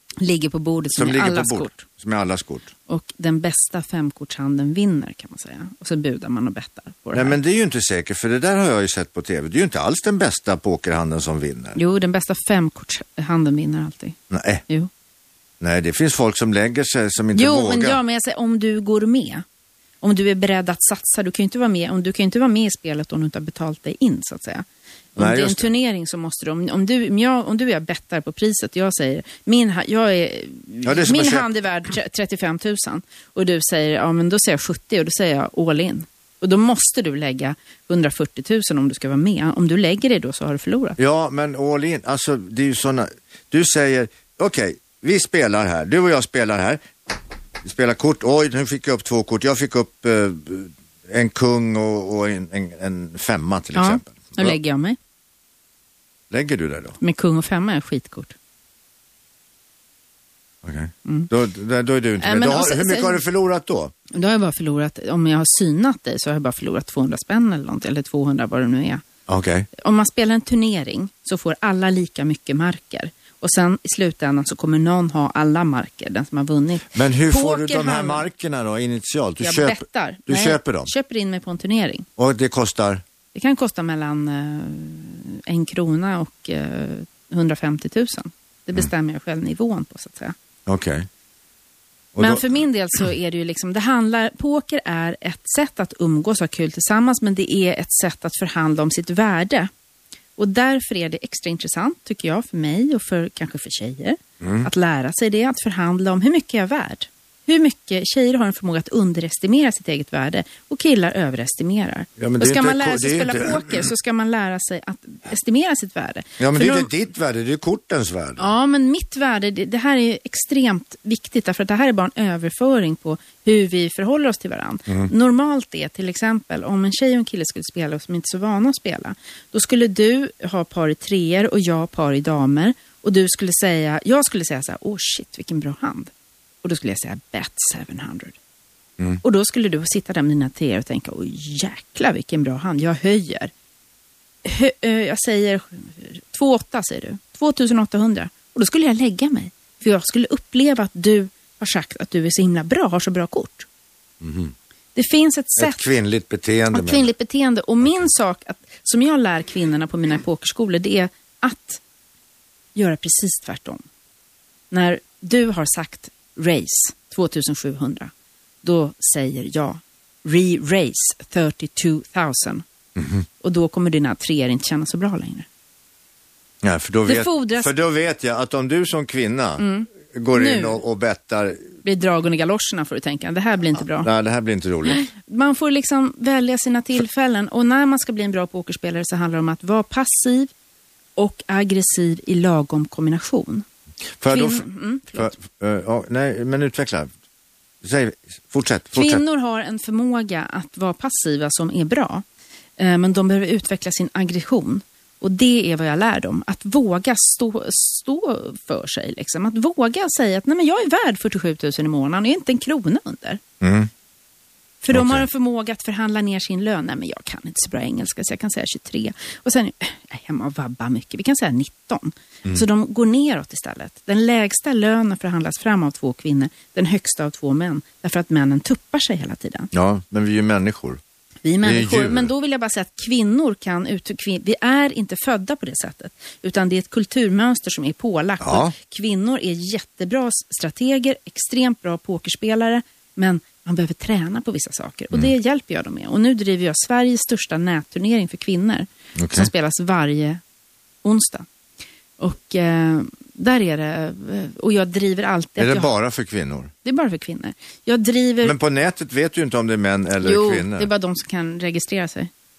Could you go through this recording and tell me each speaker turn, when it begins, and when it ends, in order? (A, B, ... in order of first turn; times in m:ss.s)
0:00.2-0:01.9 A
0:01.0-0:02.7 B
0:02.9-0:07.4 A
0:07.1-0:11.8 B
0:11.8-0:14.9 A
0:14.3-0:14.6 B
0:15.6-0:18.0 B
0:17.4-0:19.4 A
0:20.0-0:41.0 A
0:25.2-0:25.7 B
0:30.8-0:31.5 B
0:41.0-0:46.8 B
0:47.6-0:54.6 B
0:53.8-0:55.0 A
0:56.3-0:57.0 B
0:57.0-0:58.4 A
1:00.6-1:03.9 B
1:02.2-1:03.2 A
1:04.1-1:09.0 A
1:09.3-1:09.7 B
1:09.8-1:18.2 A
1:16.9-1:20.9 B
1:19.4-1:22.1 A
1:22.2-1:23.0 B
1:23.3-1:30.4 A
1:30.7-1:31.1 B
1:32.2-1:32.5 B
1:32.2-1:39.7 A
1:40.4-1:56.9 A
1:44.4-1:44.7 B
1:52.2-1:53.9 B
1:56.4-1:58.4 B
1:58.4-2:16.1 A
2:16.6-2:18.4 A
2:19.2-2:23.5 A
2:24.4-2:33.7 A
2:34.2-2:34.6 B
2:35.0-2:35.8 A
2:35.6-2:37.1 B
2:36.7-2:41.8 A
2:42.8-2:43.8 A
2:44.7-2:48.1 A
2:48.6-2:52.6 A
2:53.0-2:53.2 B
2:53.4-2:55.5 A
2:56.6-3:01.6 B
2:57.1-2:57.7 A
2:59.6-3:00.8 A
3:01.8-3:04.1 A
3:04.0-3:05.0 B
3:04.9-3:10.5 A
3:11.2-3:13.6 A
3:14.2-3:17.1 B
3:14.3-3:15.4 A
3:17.8-3:19.2 B
3:18.9-3:22.2 A
3:22.8-3:33.4 A
3:33.6-3:33.9 B
3:34.8-3:49.7 A
3:34.9-3:35.3 B
3:49.7-3:51.0 B
3:51.4-4:10.4 A
3:51.6-3:52.3 B
3:58.4-3:58.7 B
4:09.2-4:09.5 B
4:11.0-4:11.5 A
4:12.2-4:15.9 A
4:15.6-4:16.7 B
4:16.8-4:18.6 A
4:18.4-4:20.9 B
4:20.2-4:22.3 A